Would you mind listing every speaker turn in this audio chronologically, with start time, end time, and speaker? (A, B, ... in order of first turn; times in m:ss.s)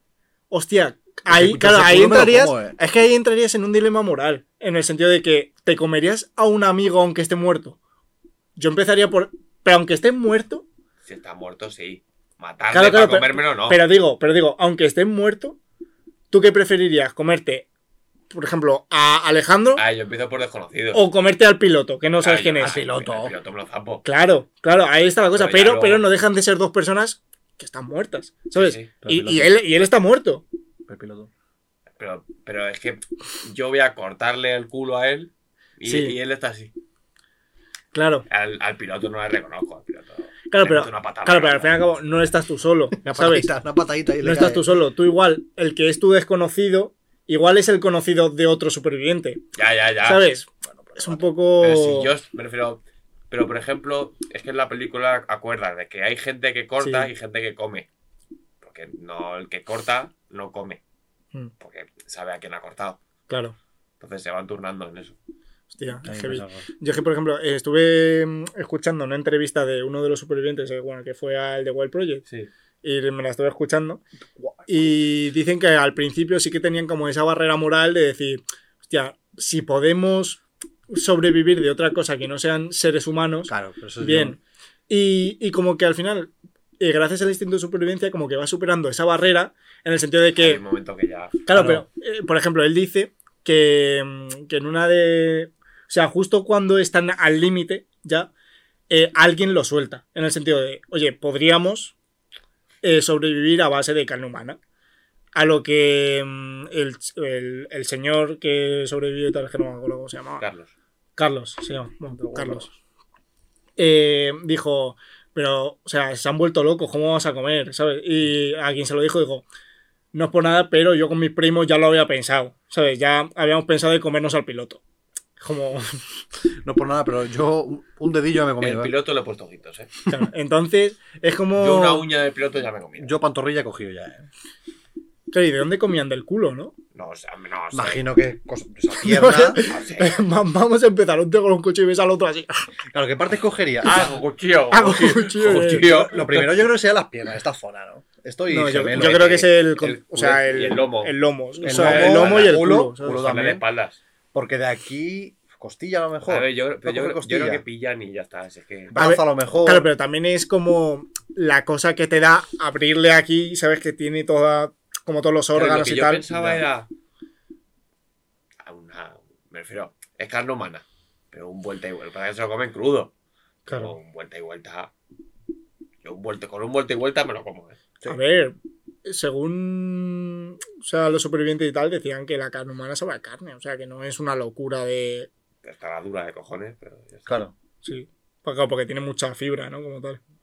0:00.5-0:07.8 A
0:01.3-0:02.8 B
0:08.6-0:10.6 A
0:11.0-0:13.8 C
0:12.7-0:15.6 A
0:16.3-0:17.7 A
0:18.3-0:19.8 A
0:19.8-0:21.0 C
0:20.9-0:22.8 A
0:22.2-0:24.0 C
0:22.6-0:23.4 B
0:24.0-0:30.4 A
0:25.4-0:26.0 C
0:28.6-0:28.9 C
0:29.0-0:29.5 B
0:30.9-0:31.3 B
0:32.0-0:36.7 C
0:35.8-0:36.2 A
0:37.9-0:38.3 A
0:38.3-0:41.7 C
0:40.5-0:43.5 A
0:42.9-0:44.7 B
0:44.2-0:49.4 A
0:49.6-0:50.4 C
0:50.0-0:52.1 A
0:50.6-0:51.3 B
0:51.6-0:57.9 C
0:56.8-0:57.1 A
0:58.6-1:00.8 C
1:01.6-1:03.0 C
1:03.3-1:03.6 A
1:04.0-1:05.2 C
1:05.7-1:12.2 A
1:06.0-1:06.6 B
1:12.8-1:14.0 A
1:14.4-1:14.9 B
1:14.7-1:30.6 A
1:23.5-1:24.4 B
1:30.4-1:31.4 C
1:31.5-1:38.3 A
1:31.5-1:31.8 B
1:38.9-1:42.0 A
1:42.8-1:44.6 A
1:45.4-1:50.4 A
1:50.4-1:50.7 C
1:51.2-1:52.7 A
1:52.2-1:52.6 B
1:53.8-1:59.4 A
2:00.1-2:04.8 A
2:05.4-2:06.0 A
2:06.6-2:08.9 B
2:08.6-2:09.9 C
2:10.1-2:12.0 A
2:11.6-2:13.1 C
2:13.0-2:14.3 B
2:15.3-2:16.8 A
2:17.0-2:18.0 C
2:17.7-2:19.6 B
2:19.0-2:22.7 A
2:19.6-2:20.2 C
2:22.9-2:24.1 B
2:23.8-2:26.7 C
2:24.7-2:25.9 A
2:25.5-2:29.4 B
2:28.5-2:33.2 A
2:28.8-2:34.0 C
2:31.6-2:33.6 B
2:34.3-2:37.6 B
2:36.3-2:39.0 C
2:38.9-2:39.9 B
2:39.0-2:46.2 A
2:45.6-2:46.9 C
2:46.3-2:46.6 B
2:48.6-2:53.1 C
2:53.7-2:54.9 C
2:53.7-2:54.0 A
2:56.0-2:57.8 C
2:58.1-3:05.3 A
3:05.6-3:07.4 C
3:07.3-3:07.5 B
3:07.8-3:10.2 A